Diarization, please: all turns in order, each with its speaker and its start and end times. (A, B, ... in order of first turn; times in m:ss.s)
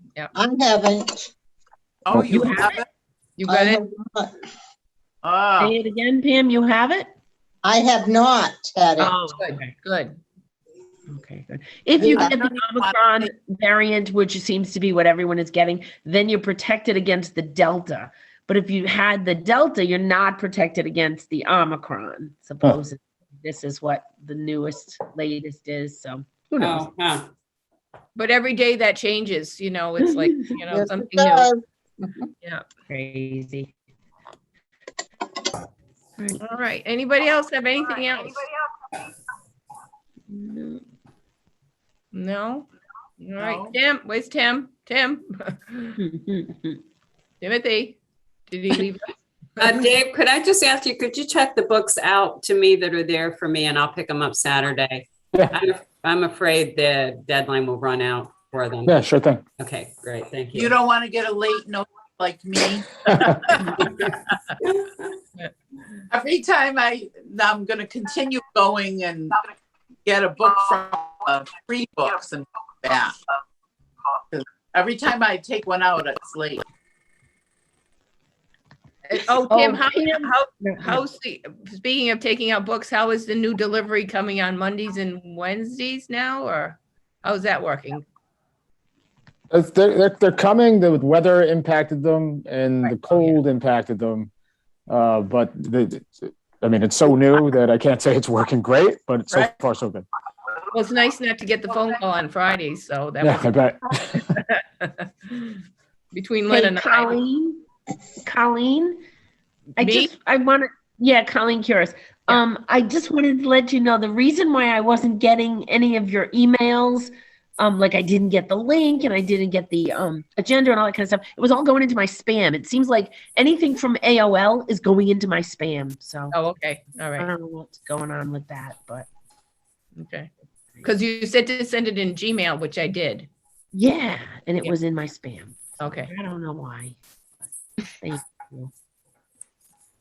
0:00.4-0:01.3 A
0:02.0-0:02.8 B
0:02.3-0:02.8 C
0:03.4-0:03.8 D
0:03.5-0:04.3 A
0:05.2-0:05.8 B
0:05.6-0:07.1 C
0:07.6-0:09.1 A
0:09.0-0:09.6 C
0:09.4-0:10.2 D
0:11.1-0:26.9 C
0:12.0-0:12.4 A
0:12.2-0:13.3 B
0:26.6-0:27.3 E
0:28.2-0:31.5 D
0:30.7-0:32.3 A
0:32.9-0:33.7 C
0:36.4-0:38.4 D
0:40.3-0:40.8 C
0:42.1-0:42.7 D
0:43.2-0:46.0 D
0:43.4-0:43.7 B
0:46.0-0:46.8 C
0:47.4-0:48.0 D
0:48.5-0:49.8 D
0:49.6-0:58.9 E
0:58.9-0:59.4 F
0:59.6-1:00.7 E
1:00.5-1:03.9 B
1:06.1-1:09.4 B
1:10.0-1:13.2 B
1:14.3-1:16.6 B
1:19.1-1:28.0 D
1:19.5-1:21.0 C
1:29.5-1:34.3 F
1:32.8-1:33.4 D
1:34.9-1:40.1 F
1:40.7-1:45.6 D
1:43.2-1:44.3 F
1:46.1-1:47.2 D
1:46.5-1:47.6 C
1:48.2-1:49.0 C
1:49.8-2:06.4 C
1:49.8-1:50.1 D
2:06.3-2:07.3 D
2:07.2-2:09.1 C
2:10.0-2:10.3 D
2:10.8-2:13.3 D
2:13.7-2:17.0 C
2:15.8-2:16.1 D
2:18.0-2:18.7 C